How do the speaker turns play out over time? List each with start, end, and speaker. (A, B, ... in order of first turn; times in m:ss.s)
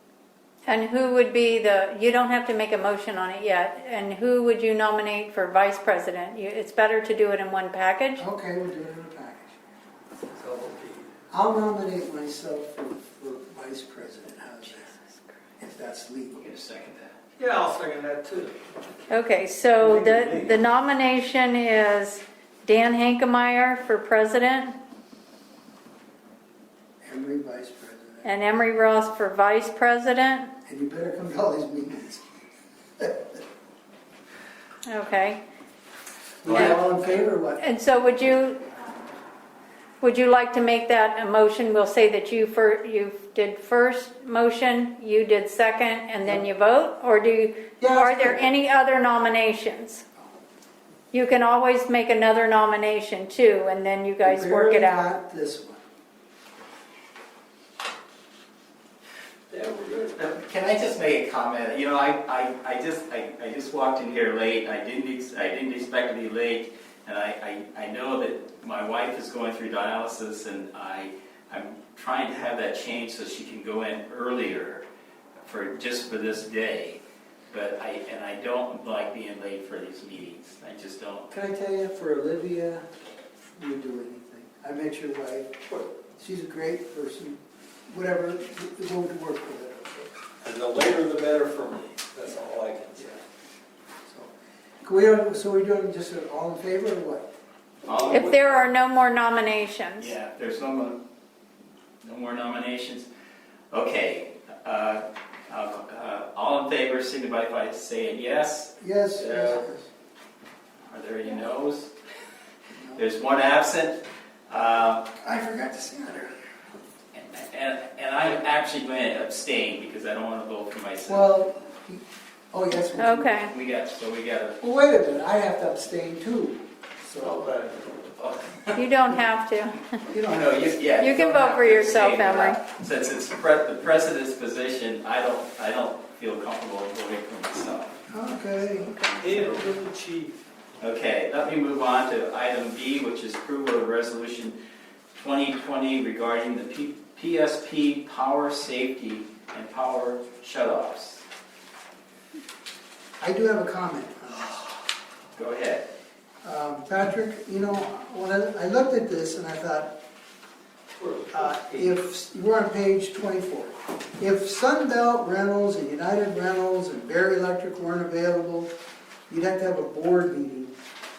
0:00.6-0:08.2 A
0:08.2-0:09.5 B
0:10.3-0:11.1 C
0:11.3-0:14.9 B
0:15.6-0:16.5 B
0:16.4-0:17.1 D
0:17.4-0:19.1 C
0:19.1-0:24.8 A
0:19.8-0:20.6 C
0:27.0-0:28.3 B
0:28.2-0:30.5 A
0:30.6-0:32.2 B
0:33.0-0:33.4 B
0:34.9-0:35.4 A
0:36.4-0:37.6 B
0:36.5-0:36.8 A
0:37.6-0:38.7 A
0:40.0-0:50.0 A
0:47.8-0:48.5 B
0:51.1-0:55.1 A
0:54.2-0:55.8 B
0:59.5-1:00.1 C
1:00.1-1:14.8 D
1:15.4-1:17.0 D
1:17.5-1:21.3 D
1:21.3-1:22.9 B
1:23.6-1:27.4 B
1:27.9-1:30.1 B
1:30.4-1:33.2 C
1:34.8-1:37.3 B
1:37.8-1:38.4 D
1:37.9-1:40.1 A
1:40.0-1:41.0 D
1:42.0-1:43.1 D
1:43.7-1:49.6 D
1:48.8-1:49.9 B
1:50.9-1:51.9 D
1:53.0-1:55.1 D
1:55.2-1:56.3 B
1:57.1-2:01.2 D
2:01.1-2:03.4 B
2:03.0-2:03.5 A
2:03.4-2:04.6 D
2:04.6-2:07.5 B
2:07.2-2:08.8 D
2:08.8-2:10.0 A
2:10.1-2:18.0 D
2:11.0-2:12.6 A
2:18.1-2:19.0 B
2:18.8-2:19.5 D
2:19.2-2:20.4 C
2:20.8-2:24.6 D
2:25.1-2:31.2 D
2:33.2-2:34.7 B
2:35.3-2:35.9 D
2:36.4-2:40.0 B
2:40.9-2:42.0 C
2:41.3-2:48.7 B
2:49.3-2:50.7 B